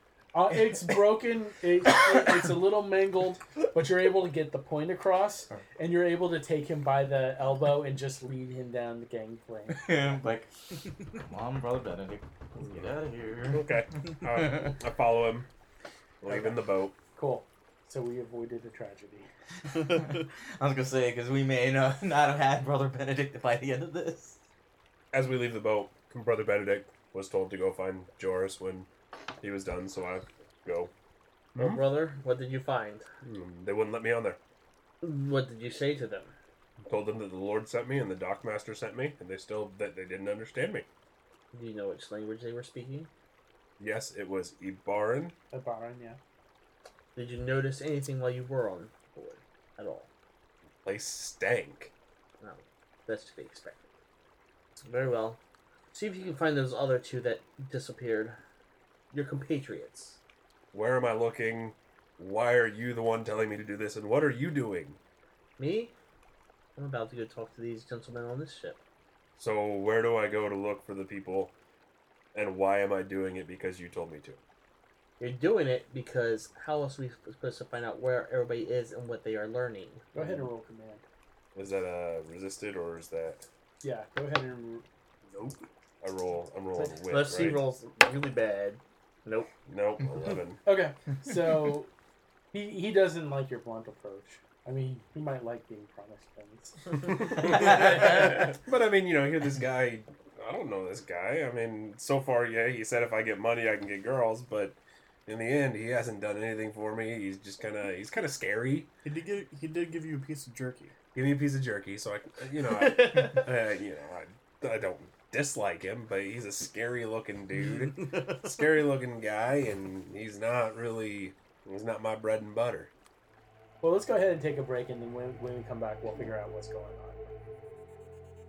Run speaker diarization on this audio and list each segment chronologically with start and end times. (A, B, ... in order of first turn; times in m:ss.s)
0:00.3-0:09.9 A
0:09.7-0:14.7 B
0:13.5-0:15.5 C
0:16.2-0:16.9 C
0:17.1-0:19.3 A
0:19.8-0:24.4 B
0:25.1-0:28.9 C
0:29.4-0:30.9 C
0:31.5-0:31.8 C
0:31.6-0:33.1 D
0:33.2-0:34.4 C
0:35.0-0:36.3 D
0:36.8-0:40.9 C
0:41.5-0:43.1 D
0:43.8-0:45.3 C
0:45.5-0:46.2 A
0:47.1-0:50.1 D
0:50.8-0:51.9 C
0:52.4-0:53.9 D
0:54.8-0:55.4 D
0:55.9-0:58.4 D
0:59.1-1:00.2 D
1:00.7-1:05.0 C
1:05.6-1:05.9 D
1:06.8-1:08.8 D
1:09.4-1:11.5 C
1:12.3-1:14.4 C
1:15.2-1:20.2 D
1:20.1-1:21.0 A
1:21.5-1:23.4 C
1:23.8-1:24.8 A
1:26.0-1:27.6 C
1:27.0-1:29.5 D
1:29.6-1:30.6 C
1:30.6-1:31.9 A
1:32.5-1:36.9 A
1:36.9-1:48.9 C
1:49.0-1:51.0 E
1:51.1-2:02.9 C
1:52.6-1:53.4 D
2:03.8-2:07.3 A